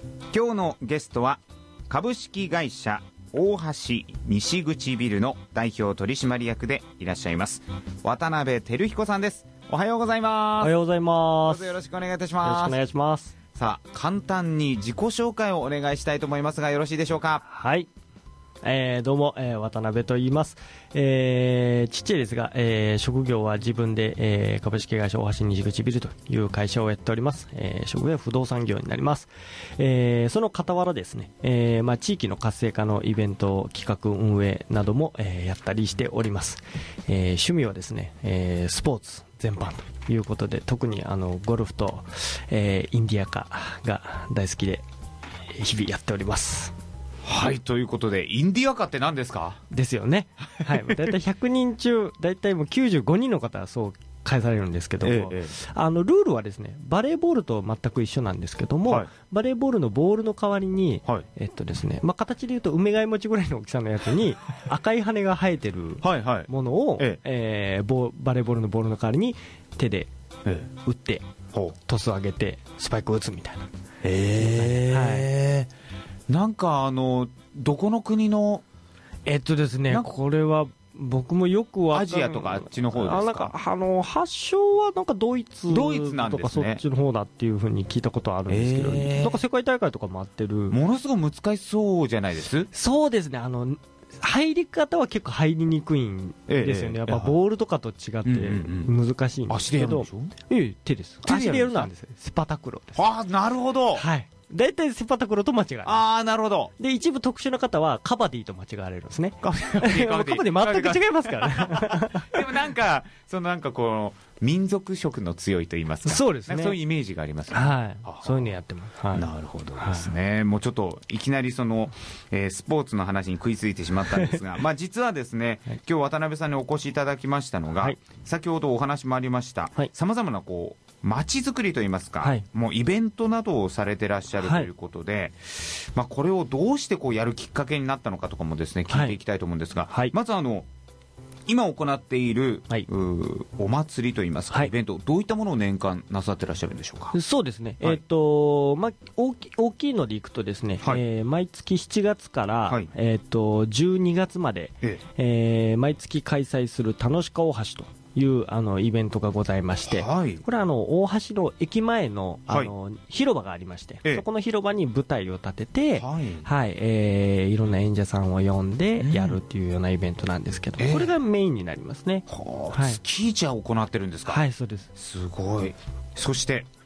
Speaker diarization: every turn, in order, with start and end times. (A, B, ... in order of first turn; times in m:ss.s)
0:00.3-0:10.7 A
0:10.6-0:11.7 B
0:11.4-0:12.8 A
0:12.4-0:13.3 B
0:13.6-0:17.4 A
0:17.4-0:17.9 B
0:18.6-0:44.8 B
0:45.5-0:46.7 B
0:47.2-0:49.6 A
0:49.7-1:10.1 B
0:50.8-0:51.1 A
0:55.0-0:55.6 A
1:06.0-1:07.2 A
1:10.8-1:11.2 B
1:11.8-1:13.7 B
1:14.0-1:15.7 A
1:14.4-1:15.3 B
1:16.3-1:18.6 A
1:19.2-1:30.8 B
1:19.9-1:20.1 A
1:21.9-1:23.5 A
1:25.7-1:26.8 A
1:28.5-1:29.4 A
1:30.7-1:32.7 A
1:32.7-1:43.0 B
1:36.5-1:37.3 A
1:38.2-1:38.9 A
1:39.5-1:40.3 A
1:41.2-1:41.9 A
1:42.9-1:44.0 A
1:43.9-1:46.0 B
1:45.8-1:46.7 A
1:46.8-1:52.4 B
1:49.4-1:58.5 A
1:56.0-1:56.8 B
1:57.5-2:00.1 B
1:59.1-2:20.7 A
2:04.1-2:04.4 B
2:14.4-2:14.7 B
2:18.9-2:19.2 B
2:19.9-2:20.1 B
2:21.5-2:27.1 A
2:27.1-2:53.0 B
2:39.9-2:40.4 A
2:46.0-2:46.5 A
2:49.0-2:49.4 A
2:50.8-2:51.1 A
2:52.3-2:54.4 A
2:54.3-2:54.9 B
2:55.0-2:56.7 A